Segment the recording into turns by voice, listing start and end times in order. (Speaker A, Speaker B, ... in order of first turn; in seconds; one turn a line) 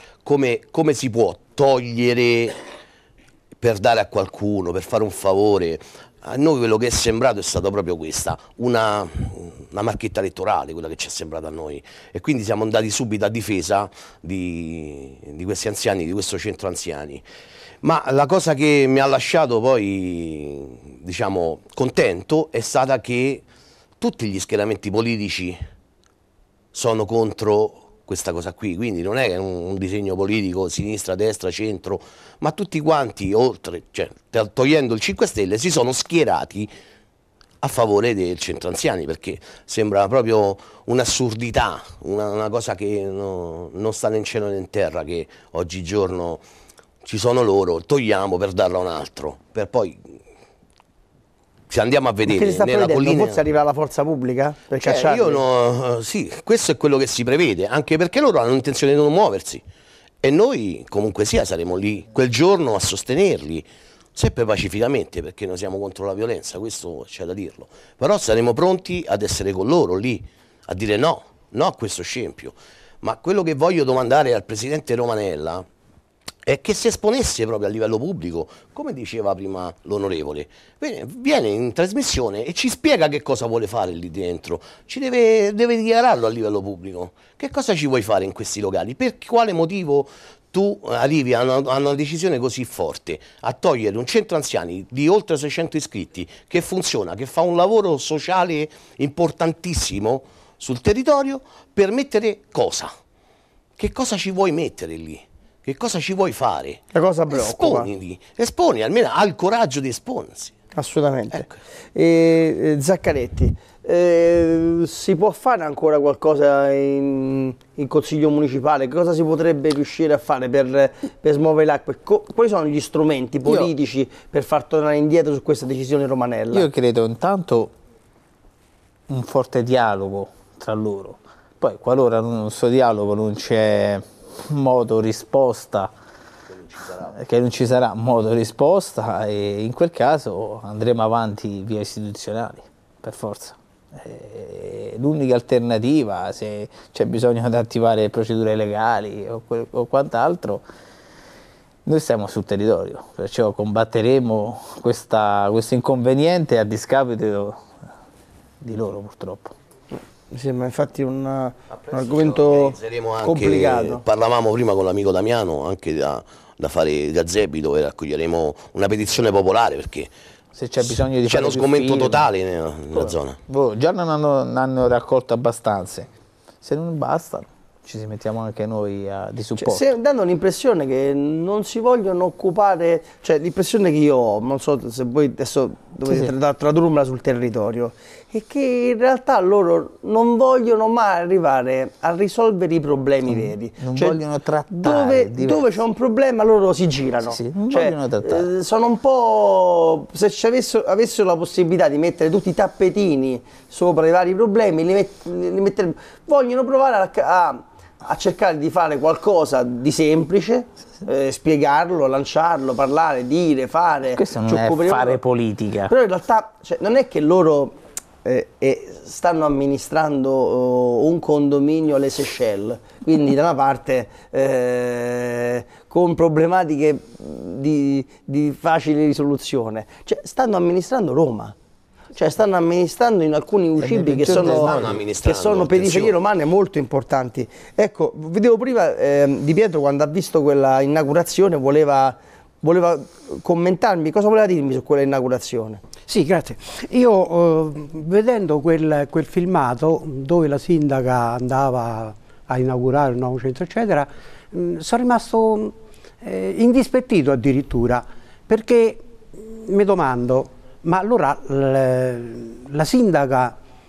Speaker A: 0.2-2.6
Speaker A: 3.6-17.2
Speaker A: 17.8-23.4
Speaker A: 24.0-25.6
Speaker A: 26.7-36.7
Speaker A: 37.6-46.4
Speaker A: 47.0-50.1
Speaker A: 51.7-53.4
Speaker B: 52.2-55.4
Speaker A: 54.8-59.6
Speaker A: 60.2-75.7
Speaker A: 76.5-102.9
Speaker A: 103.8-110.5
Speaker B: 106.9-107.9
Speaker B: 110.7-126.7
Speaker C: 126.5-127.7
Speaker C: 129.1-135.9
Speaker A: 136.7-137.1
Speaker C: 137.1-150.6
Speaker C: 151.8-157.7
Speaker C: 158.6-159.5
Speaker B: 159.9-164.0
Speaker A: 161.7-170.1
Speaker C: 170.5-172.3
Speaker A: 170.9-173.4
Speaker C: 172.9-176.1
Speaker C: 176.6-179.8
Speaker B: 179.6-194.2
Speaker C: 193.2-195.7
Speaker B: 194.7-215.2
Speaker C: 197.2-198.5
Speaker C: 214.1-215.9
Speaker B: 215.9-231.5
Speaker B: 232.1-245.8
Speaker C: 233.8-234.9
Speaker A: 234.3-236.2
Speaker D: 246.1-263.6